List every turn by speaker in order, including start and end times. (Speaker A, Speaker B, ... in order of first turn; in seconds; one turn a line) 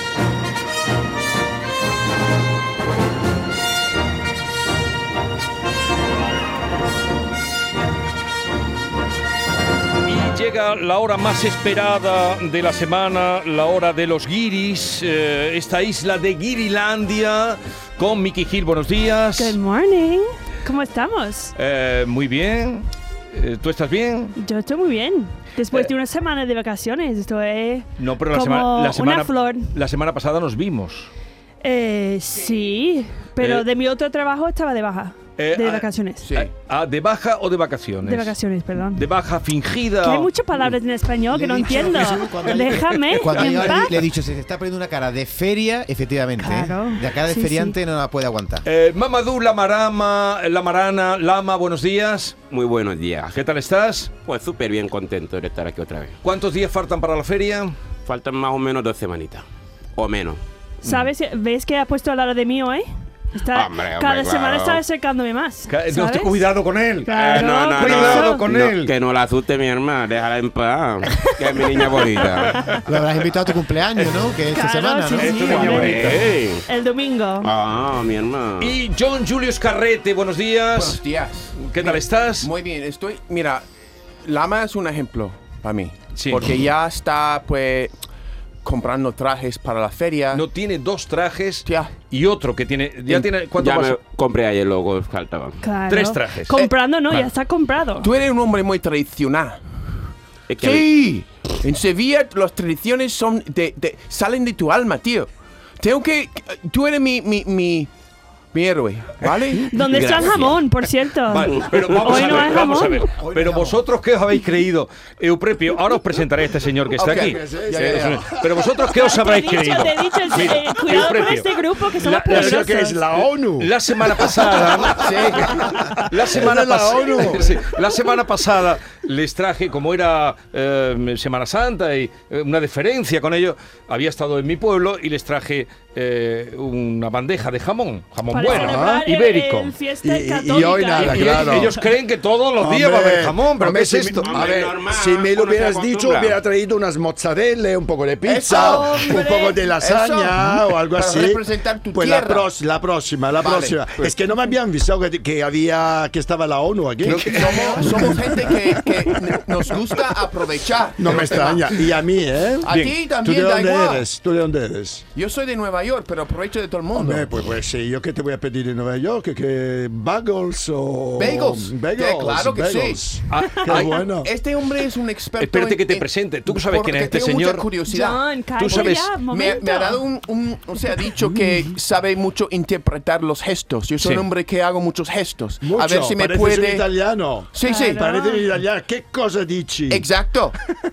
Speaker A: 10.1-19.6
Speaker B: 19.4-21.5
Speaker A: 21.6-24.3
Speaker B: 24.4-29.7
Speaker A: 28.0-31.1
Speaker B: 31.6-36.3
Speaker A: 33.4-33.6
Speaker A: 35.4-38.4
Speaker C: 36.2-36.5
Speaker B: 38.0-39.0
Speaker A: 38.9-40.3
Speaker B: 40.0-44.0
Speaker D: 41.3-48.6
Speaker A: 42.8-44.0
Speaker B: 46.4-47.8
Speaker A: 48.6-52.4
Speaker E: 52.5-53.4
Speaker A: 53.3-54.1
Speaker E: 54.2-56.2
Speaker A: 56.2-57.7
Speaker E: 58.0-59.4
Speaker E: 60.0-60.4
Speaker B: 60.8-66.4
Speaker E: 63.5-64.8
Speaker A: 65.7-67.2
Speaker B: 67.1-68.4
Speaker E: 67.1-72.6
Speaker A: 67.8-68.9
Speaker D: 72.8-75.9
Speaker B: 74.5-77.5
Speaker A: 75.2-76.4
Speaker E: 76.0-76.6
Speaker E: 77.4-78.7
Speaker A: 78.6-81.0
Speaker C: 80.7-83.6
Speaker A: 81.5-82.5
Speaker C: 84.2-87.9
Speaker A: 86.1-86.5
Speaker C: 88.6-90.4
Speaker A: 90.3-94.0
Speaker C: 91.7-91.9
Speaker E: 93.6-95.6
Speaker B: 95.6-98.1
Speaker A: 95.9-96.5
Speaker C: 98.0-99.6
Speaker E: 100.5-100.9
Speaker C: 100.6-107.9
Speaker C: 108.5-109.7
Speaker A: 109.7-110.6
Speaker B: 109.7-113.1
Speaker A: 111.3-125.5
Speaker D: 113.2-113.8
Speaker C: 116.9-118.2
Speaker F: 117.0-118.5
Speaker B: 118.9-123.0
Speaker F: 122.3-124.3
Speaker C: 124.9-125.7
Speaker F: 125.4-127.7
Speaker A: 126.1-139.7
Speaker B: 138.3-141.9
Speaker F: 138.5-139.0
Speaker F: 140.0-141.7
Speaker A: 140.9-144.4
Speaker F: 142.6-159.0
Speaker E: 144.2-146.4
Speaker C: 148.2-149.2
Speaker B: 148.4-149.6
Speaker C: 149.8-152.5
Speaker C: 153.4-154.1
Speaker A: 157.0-158.4
Speaker C: 157.0-161.9
Speaker F: 161.0-165.0
Speaker C: 162.6-164.0
Speaker C: 165.1-167.3
Speaker F: 166.9-174.3
Speaker C: 171.2-173.0
Speaker A: 173.3-174.0
Speaker C: 173.7-186.9
Speaker A: 175.4-177.7
Speaker B: 177.9-180.0
Speaker A: 178.6-179.1
Speaker F: 185.6-190.1
Speaker C: 187.5-188.1
Speaker B: 187.6-188.4
Speaker C: 189.9-190.6